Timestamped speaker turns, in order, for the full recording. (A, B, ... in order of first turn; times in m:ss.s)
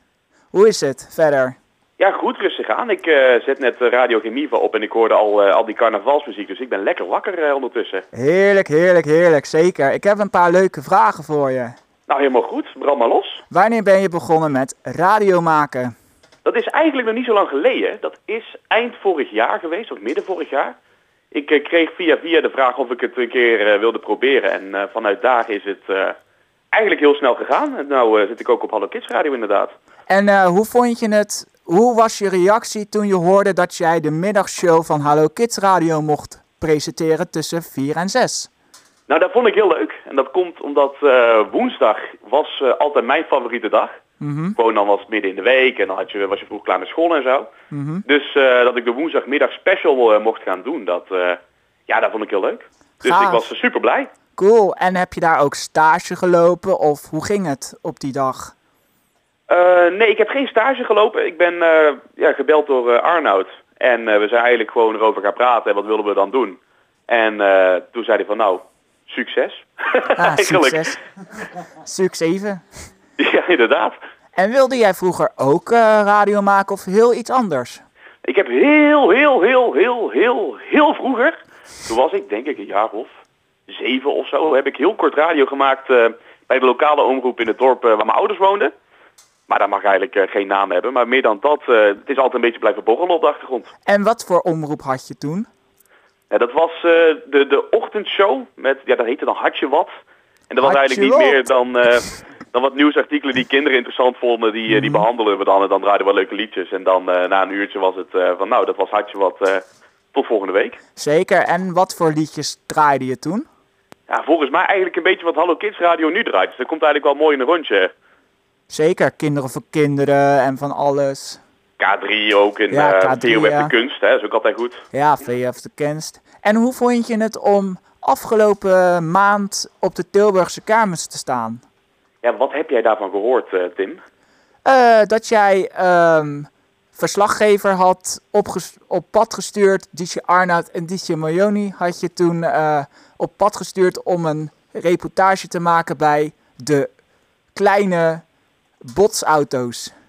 0:00.5-0:01.6 A
0:02.0-0:08.0 B
0:08.1-0:11.7 A
0:12.1-0:13.4 B
0:13.5-0:15.9 A
0:16.4-0:20.7 B
0:21.3-0:26.1 B
0:26.7-0:29.7 B
0:30.1-0:38.5 A
0:39.1-0:43.9 B
0:44.2-0:44.6 A
0:44.6-0:47.5 B
0:47.7-0:48.0 A
0:48.0-0:54.1 B
0:53.0-0:53.5 A
0:54.4-0:58.5 A
0:59.5-1:10.9 B
1:10.2-1:11.0 A
1:11.7-1:12.6 A
1:13.2-1:14.0 B
1:14.4-1:17.8 A
1:18.2-1:21.3 B
1:21.8-1:23.1 B
1:23.7-1:28.7 B
1:29.5-1:33.7 B
1:33.8-1:35.5 A
1:36.3-1:39.9 B
1:40.5-1:49.6 B
1:40.6-1:41.5 A
1:44.7-1:45.0 A
1:50.1-1:50.8 B
1:51.0-1:53.5 A
1:54.1-1:57.9 B
1:58.7-2:01.4 A
2:01.8-2:04.8 B
2:02.7-2:03.7 A
2:04.9-2:11.6 A
2:12.2-2:14.0 B
2:14.6-2:26.9 A
2:27.5-2:28.2 A
2:28.8-2:29.9 A